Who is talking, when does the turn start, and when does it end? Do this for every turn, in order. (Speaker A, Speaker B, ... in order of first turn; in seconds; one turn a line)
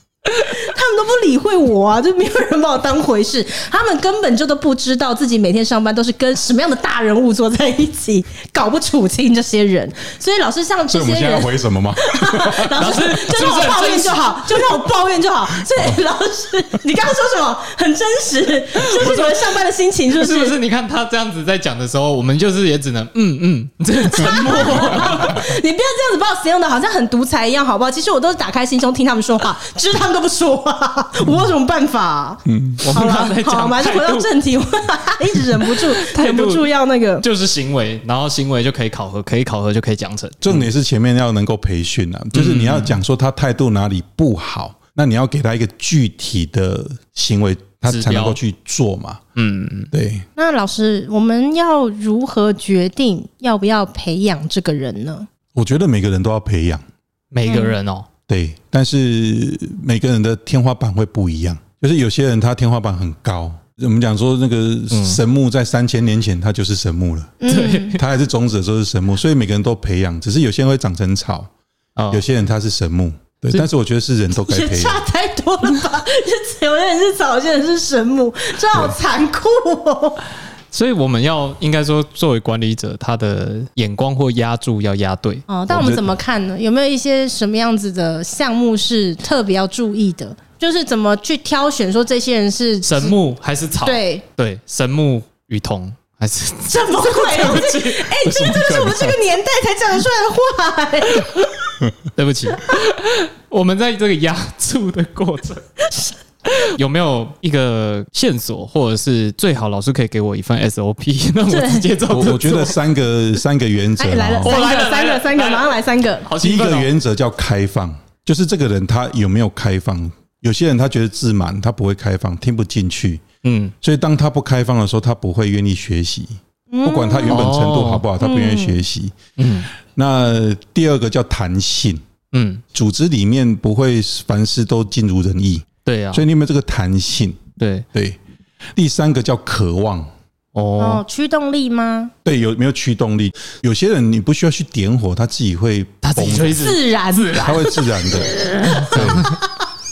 Speaker A: 0.3-20.6
Speaker B: 10.9-12.9
Speaker C: 12.8-14.3
Speaker C: 18.9-19.4
Speaker C: 20.1-25.5
Speaker A: 24.1-37.2
Speaker B: 32.5-32.8
Speaker C: 32.8-34.3
Speaker C: 35.6-36.7
Speaker C: 37.2-40.7
Speaker B: 40.4-49.2
Speaker C: 42.3-43.0
Speaker C: 47.9-48.4
Speaker C: 49.4-49.9
Speaker B: 49.9-50.2
Speaker A: 50.4-55.3
Speaker B: 55.5-56.8
Speaker C: 57.3-58.1
Speaker A: 57.5-57.8
Speaker B: 58.3-71.5
Speaker C: 64.9-65.2
Speaker A: 67.4-68.0
Speaker C: 67.5-68.0
Speaker C: 72.0-72.2
Speaker B: 72.1-75.0
Speaker A: 74.3-80.2
Speaker C: 80.7-85.5
Speaker A: 85.5-93.2
Speaker B: 85.7-86.1
Speaker C: 92.8-98.1
Speaker A: 93.8-94.2
Speaker A: 96.7-101.5
Speaker B: 98.2-99.2
Speaker C: 102.2-105.6
Speaker A: 105.9-106.1
Speaker C: 106.5-112.8
Speaker A: 111.5-111.9
Speaker B: 112.1-114.6
Speaker A: 114.0-116.3
Speaker C: 114.4-116.9
Speaker B: 116.4-123.2
Speaker C: 123.4-123.7
Speaker B: 123.8-129.2
Speaker A: 126.7-127.5
Speaker C: 127.3-128.0
Speaker A: 128.2-128.8
Speaker C: 129.4-129.7
Speaker B: 129.7-132.0
Speaker C: 132.3-132.6
Speaker B: 132.7-138.2
Speaker C: 135.8-136.2
Speaker C: 137.6-137.9
Speaker B: 138.8-140.1
Speaker C: 140.6-141.0
Speaker A: 140.8-142.1
Speaker B: 142.2-146.6
Speaker C: 146.0-147.8
Speaker A: 146.6-149.4
Speaker B: 147.4-148.4
Speaker C: 148.7-149.4
Speaker B: 148.9-149.4